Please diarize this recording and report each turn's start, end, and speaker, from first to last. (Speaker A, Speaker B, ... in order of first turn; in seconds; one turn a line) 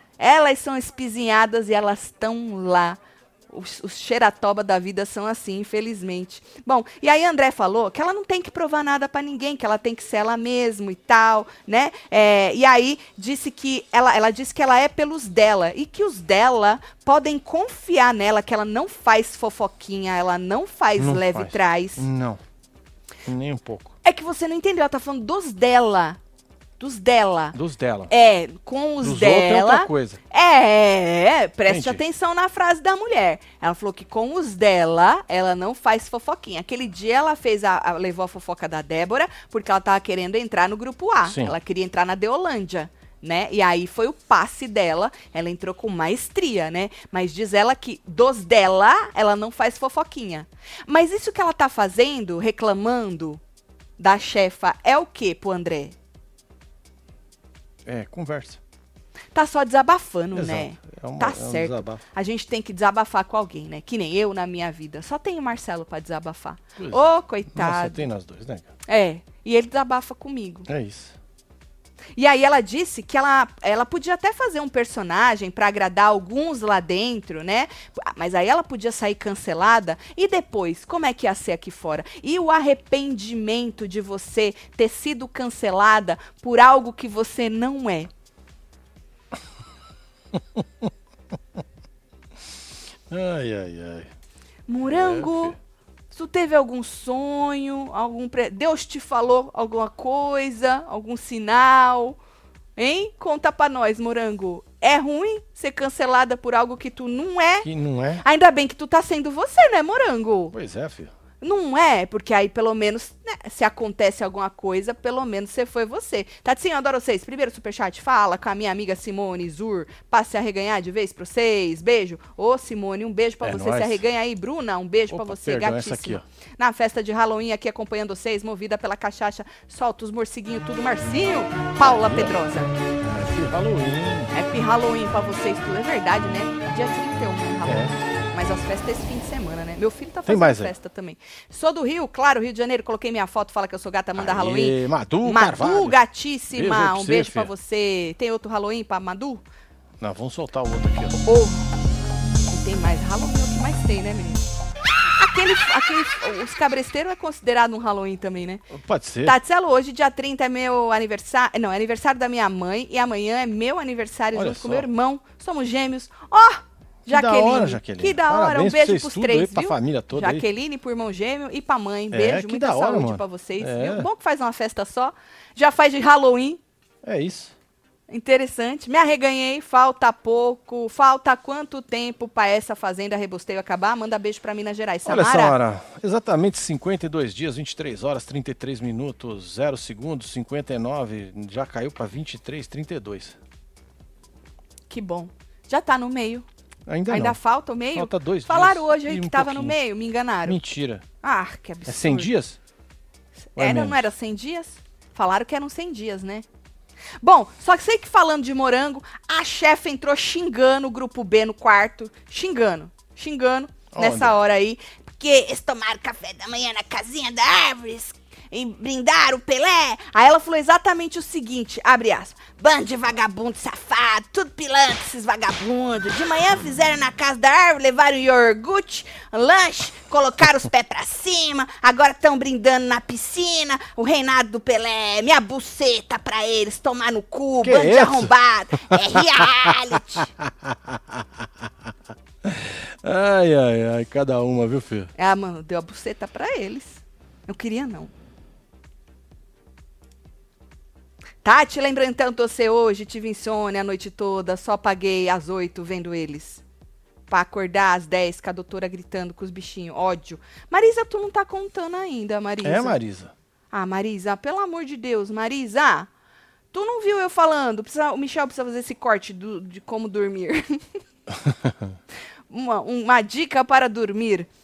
Speaker A: 0.2-3.0
Speaker A: 3.5-22.1
Speaker B: 21.0-22.4
Speaker B: 23.2-23.9
Speaker A: 24.0-26.2
Speaker A: 26.8-27.6
Speaker B: 27.5-28.1
Speaker A: 28.1-53.4
Speaker B: 29.0-30.2
Speaker B: 31.7-32.0
Speaker B: 41.2-41.5
Speaker A: 54.0-56.0
Speaker B: 57.9-58.6
Speaker A: 59.4-68.1
Speaker B: 60.4-62.0
Speaker B: 66.8-68.7
Speaker A: 68.9-70.7
Speaker B: 70.7-71.2
Speaker A: 72.2-88.1
Speaker B: 90.3-90.9
Speaker B: 93.1-94.1
Speaker A: 94.7-95.6
Speaker B: 94.9-95.6
Speaker A: 96.1-102.2
Speaker A: 102.8-107.7
Speaker B: 107.6-108.2
Speaker A: 108.2-110.5
Speaker B: 110.5-111.1
Speaker A: 111.4-132.7
Speaker B: 123.4-124.0
Speaker B: 125.1-126.2
Speaker B: 131.8-132.3
Speaker B: 133.0-134.3
Speaker A: 134.3-149.4
Speaker B: 137.7-138.0
Speaker B: 140.3-140.7
Speaker B: 144.2-146.0
Speaker B: 146.5-147.5
Speaker B: 150.0-151.2
Speaker A: 151.2-151.7
Speaker A: 152.5-154.5
Speaker A: 155.2-158.7
Speaker B: 158.7-159.4
Speaker A: 159.2-176.6
Speaker B: 164.3-164.9
Speaker B: 167.1-170.4
Speaker B: 172.1-174.1
Speaker B: 177.0-177.6
Speaker A: 178.1-185.6
Speaker B: 185.1-193.4
Speaker A: 194.9-196.4
Speaker B: 196.9-197.4
Speaker A: 197.1-200.6
Speaker B: 197.9-199.8
Speaker B: 200.4-201.1
Speaker A: 201.2-202.3
Speaker B: 201.9-202.6
Speaker A: 203.5-206.4
Speaker B: 203.6-204.1
Speaker A: 207.2-240.3
Speaker B: 213.9-214.4
Speaker B: 237.6-238.3
Speaker B: 238.9-241.9
Speaker B: 242.4-245.1
Speaker A: 245.2-248.1
Speaker A: 251.4-256.6
Speaker A: 257.3-263.0
Speaker B: 262.6-263.3
Speaker A: 263.7-266.1
Speaker A: 266.7-271.0
Speaker B: 271.3-272.0
Speaker A: 272.5-274.5